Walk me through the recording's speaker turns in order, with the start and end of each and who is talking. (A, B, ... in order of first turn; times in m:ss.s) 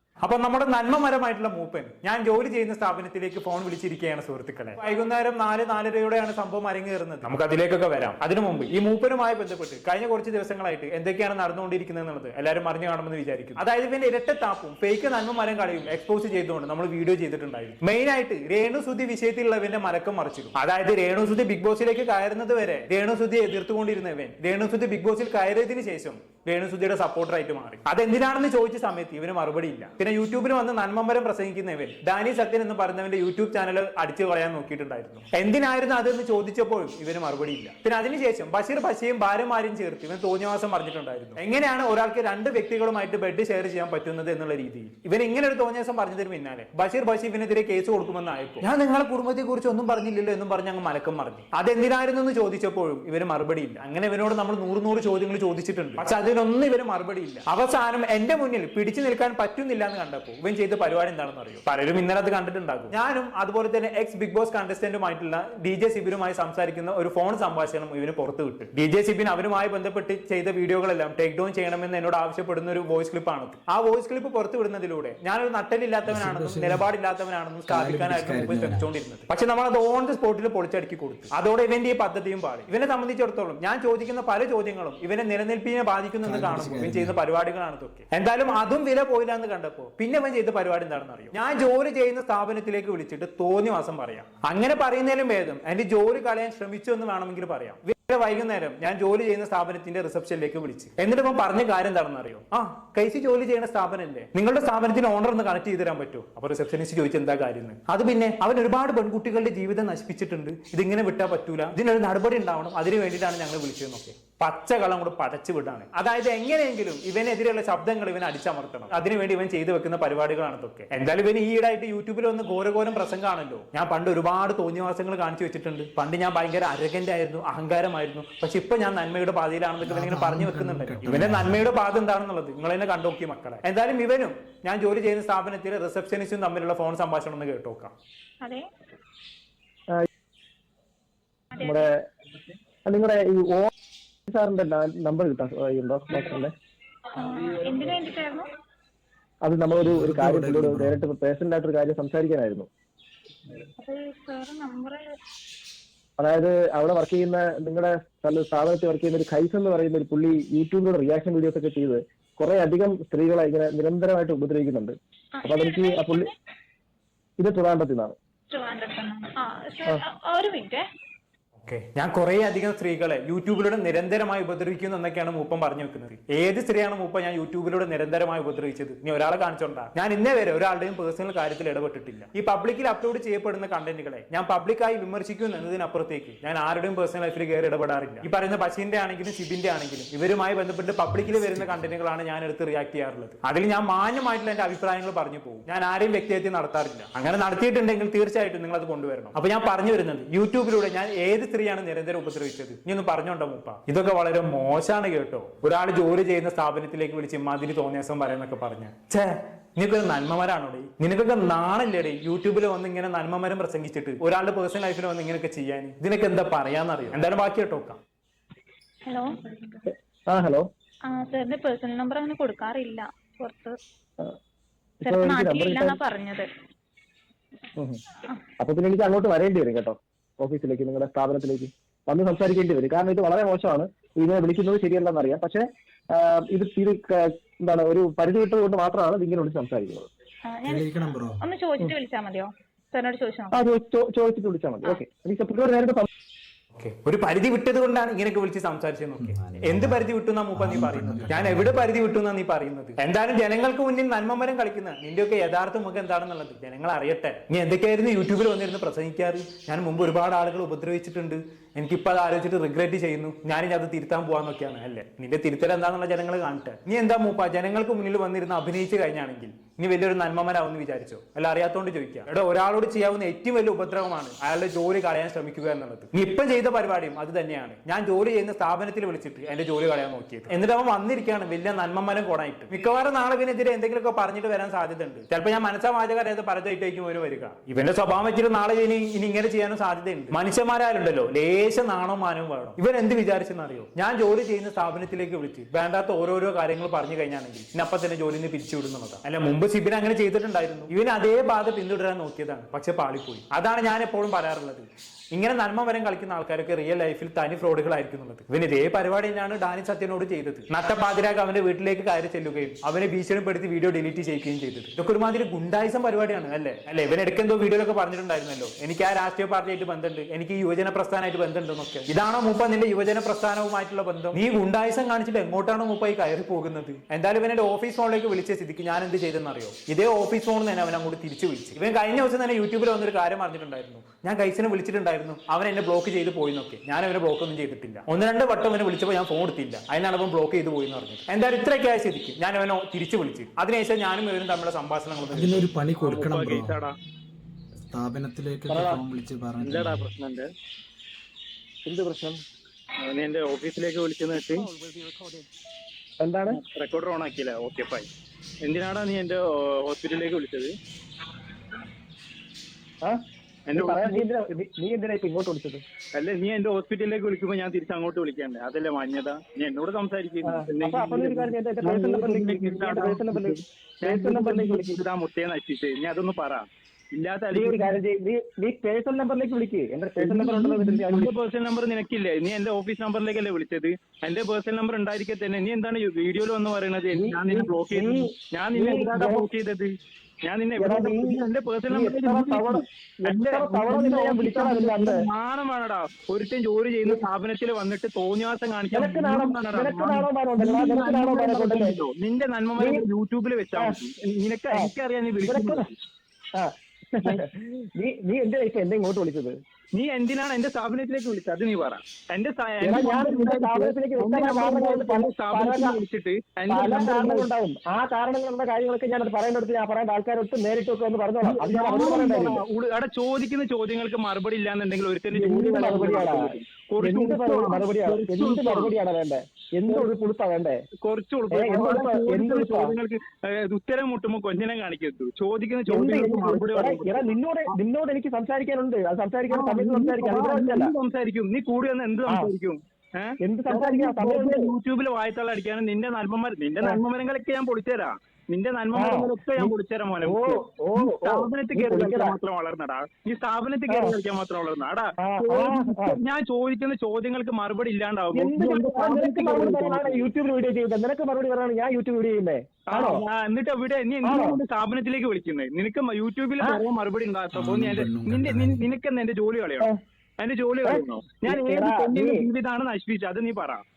0:00.2-2:17.9 A
1:16.0-1:16.9 B
1:17.7-1:18.9 B
1:26.2-1:27.2 B
2:09.8-2:11.6 B
2:21.5-2:21.9 C
2:21.6-2:22.0 D
2:22.8-2:23.7 D
2:24.3-2:26.5 D
2:27.1-2:28.5 C
2:29.4-2:32.7 D
2:29.8-2:31.0 B
2:33.8-2:35.0 C
2:36.2-2:46.3 D
2:45.4-2:46.3 C
2:47.4-2:48.1 D
2:48.5-2:50.8 C
2:51.6-3:38.0 A
3:11.1-3:11.9 B
3:39.1-3:39.7 C
3:40.3-3:40.6 D
3:41.1-3:43.8 C
3:45.0-3:46.0 D
3:45.0-3:46.5 C
3:48.6-4:00.1 D
4:00.5-4:03.6 C
4:00.6-4:01.4 B
4:03.5-4:06.1 D
4:06.7-5:46.7 A
4:09.2-4:11.9 B
5:45.3-5:46.8 B
5:46.1-5:46.7 E
5:47.8-5:50.1 B
5:48.7-5:49.0 D
5:49.6-5:50.5 E
5:51.8-5:52.4 D
5:53.1-5:54.7 E
5:56.2-5:56.6 D
5:56.6-5:58.0 E
5:58.6-6:00.7 E
6:03.7-6:04.2 E
6:03.7-6:05.8 D
6:06.2-6:07.6 A
6:06.7-6:16.6 E
6:10.4-6:15.0 D
6:17.1-6:18.0 E
6:17.5-6:21.3 D
6:20.2-6:29.9 E
6:27.1-6:29.5 D
6:30.4-6:45.9 E
6:30.8-6:35.2 D
6:38.9-6:42.0 D
6:42.8-6:43.0 D
6:44.7-6:45.9 D
6:46.6-6:49.6 D
6:49.9-6:57.5 E
6:52.8-6:56.0 D
6:56.7-7:02.6 D
7:01.4-7:08.9 E
7:05.3-7:10.8 D
7:11.0-7:17.2 E
7:11.5-7:13.0 D
7:15.8-7:20.9 D
7:19.5-7:40.3 E
7:22.3-7:22.5 D
7:23.4-7:24.7 D
7:28.9-7:32.4 D
7:33.9-7:34.2 D
7:35.2-7:36.2 D
7:38.3-7:43.2 D
7:42.9-7:49.9 E
7:44.2-7:44.6 D
7:47.5-7:48.8 B
7:50.4-7:53.8 E
7:50.8-7:52.5 D